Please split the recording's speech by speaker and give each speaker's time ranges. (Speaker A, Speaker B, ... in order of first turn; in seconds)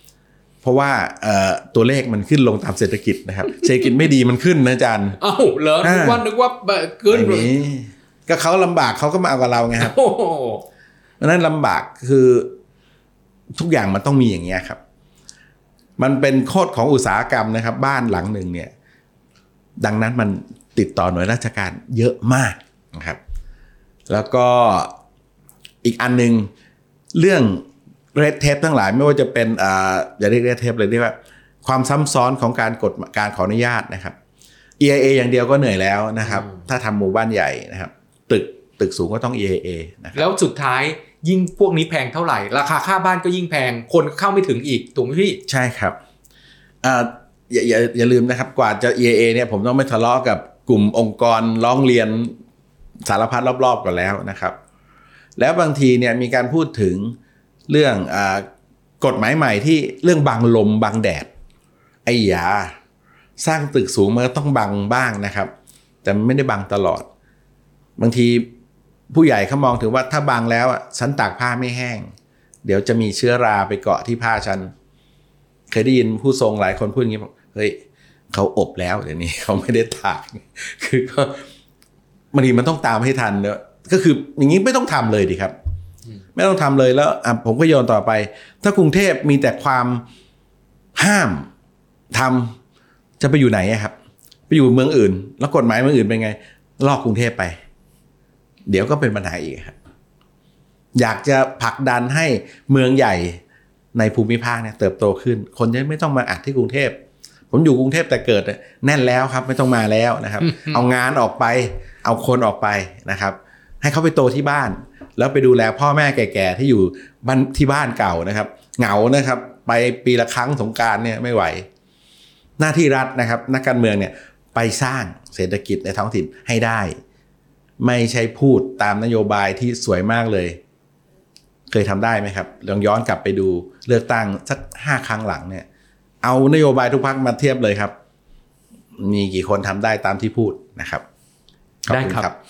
Speaker A: 0.6-5.2, 5.8-6.2, 7.1-9.9, 11.2-12.6, 13.5-14.8, 16.0-18.7, 19.8-23.2, 24.1-24.9, 25.8-26.5, 27.1-34.1, 34.8-40.2, 45.5-46.0, 46.8-52.3, 53.0-54.6, 55.4-57.2, 57.7-58.5, 59.0-61.3, 62.0-62.8, 63.4-65.5, 66.0-67.1, 68.0-68.5, 69.1-72.1, 72.6-74.7, 75.7-77.8, 78.3-81.5, 82.3-85.5, 86.3-90.0, 90.9-91.5, 92.1-92.5, 93.2-93.9, 94.5-97.6, 98.7-99.7, 100.9-103.4, 103.9-107.0, 107.5-121.7, 122.6-127.0, 127.8-130.6, 131.7-135.7, 136.2-137.9, 139.0-141.0, 141.8-142.3
Speaker B: 5.2-7.5, 9.8-10.6, 36.3-36.6, 40.1-45.4, 110.4-110.8, 141.9-142.3